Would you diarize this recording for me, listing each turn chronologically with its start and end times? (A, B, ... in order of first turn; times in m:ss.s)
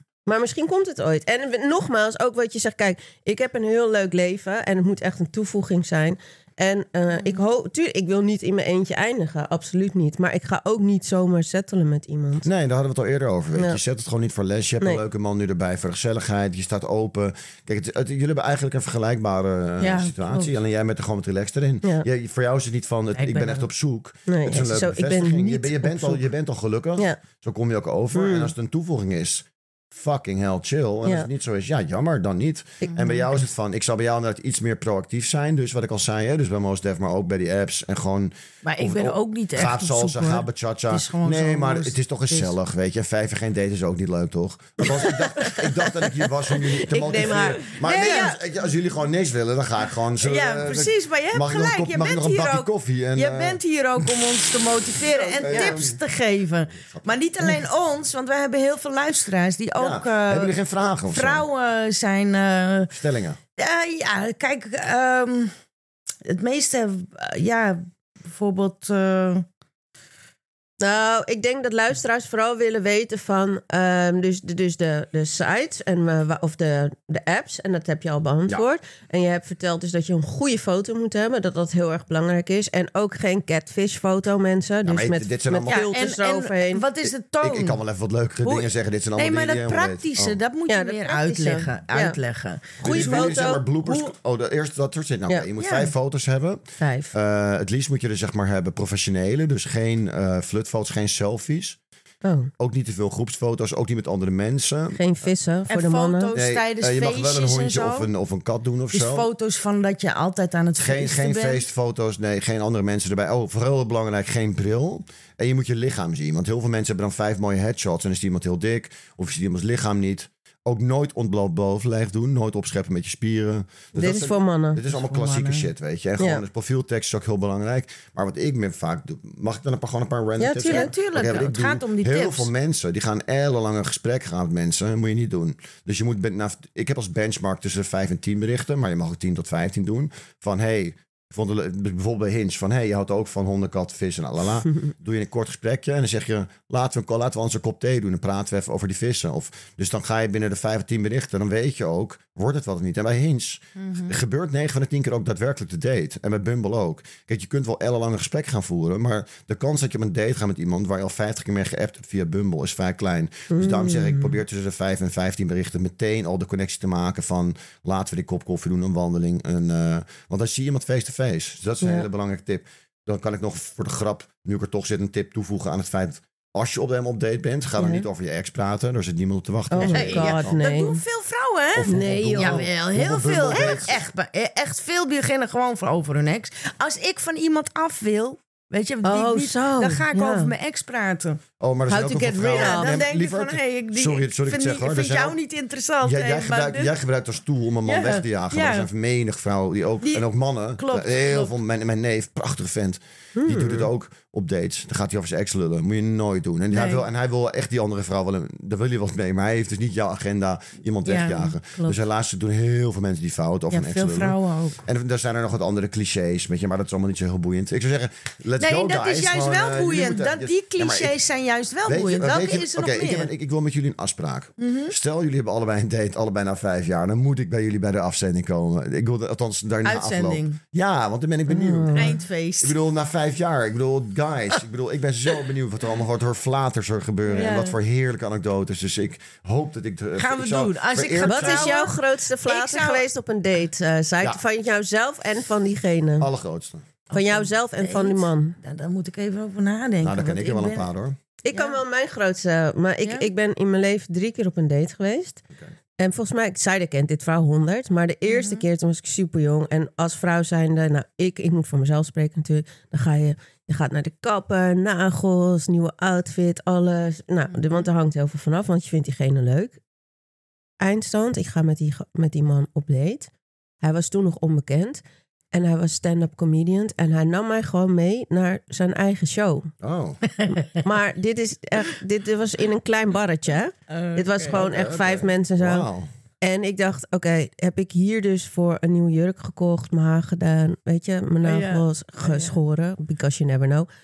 0:00.2-0:12.5 A
0:12.4-0:53.6 B
0:19.8-0:20.6 C
0:23.1-0:23.7 C
0:24.3-0:26.2 A
0:28.1-0:28.5 A
0:32.9-0:33.2 C
0:38.6-0:42.5 C
0:45.4-0:45.6 C
0:46.7-0:48.4 A
0:47.2-0:48.4 C
0:50.2-1:00.6 C
0:55.2-0:56.0 B
0:55.5-0:55.8 A
0:56.8-0:57.2 B
0:59.8-1:01.4 B
1:01.1-1:02.9 C
1:02.9-1:03.4 B
1:03.6-1:05.5 C
1:06.2-1:09.4 C
1:10.8-1:26.8 A
1:24.8-1:25.8 B
1:25.7-1:27.8 C
1:27.0-1:30.4 B
1:28.4-1:34.1 C
1:30.7-1:32.2 A
1:32.8-1:41.8 B
1:32.8-1:33.6 A
1:35.6-1:35.9 C
1:36.8-1:37.1 A
1:42.2-1:42.5 A
1:42.6-1:45.0 B
1:44.9-1:46.3 A
1:45.7-1:48.1 C
1:46.3-1:49.3 B
1:48.9-1:51.6 C
1:50.8-3:00.6 B
2:03.9-2:04.8 A
2:04.9-2:05.7 C
2:10.4-2:10.9 A
2:10.6-2:12.5 C
2:33.8-2:34.2 C
2:43.5-2:44.3 A
2:51.8-2:52.0 A
2:57.8-2:58.0 A
2:59.7-3:01.0 A
2:59.8-3:11.4 C
3:01.7-3:04.0 B
3:01.8-3:02.7 A
3:09.0-3:10.5 A
3:11.6-3:15.4 B
3:11.9-3:13.0 A
3:12.5-3:16.9 C
3:16.0-3:41.1 B
3:17.8-3:18.9 C
3:20.8-3:21.5 C
3:23.4-3:23.9 A
3:26.7-3:27.0 C
3:31.0-3:32.0 C
3:33.7-3:34.8 C
3:38.6-3:43.3 C
3:41.8-4:01.8 B
3:44.6-3:44.9 C
3:49.8-3:50.6 C
3:51.5-3:52.2 A
3:51.9-3:52.8 C
3:57.2-3:57.8 C
4:00.2-4:03.0 C
4:01.2-4:06.3 A
4:06.2-4:06.8 B
4:07.1-4:10.9 C
4:07.1-4:08.6 A
4:10.0-4:11.2 B
4:11.4-4:15.4 A
4:11.5-4:11.8 C
4:13.0-4:13.3 C
4:16.0-4:29.8 A
4:18.3-4:18.6 C
4:27.5-4:27.9 C
4:30.8-4:33.3 A
4:33.8-4:39.7 A
4:39.8-4:40.2 B
4:40.3-4:40.8 C
4:40.8-4:45.9 A
4:43.9-4:44.6 C
4:44.5-4:46.1 B
4:46.4-4:53.9 A
4:51.4-4:52.5 C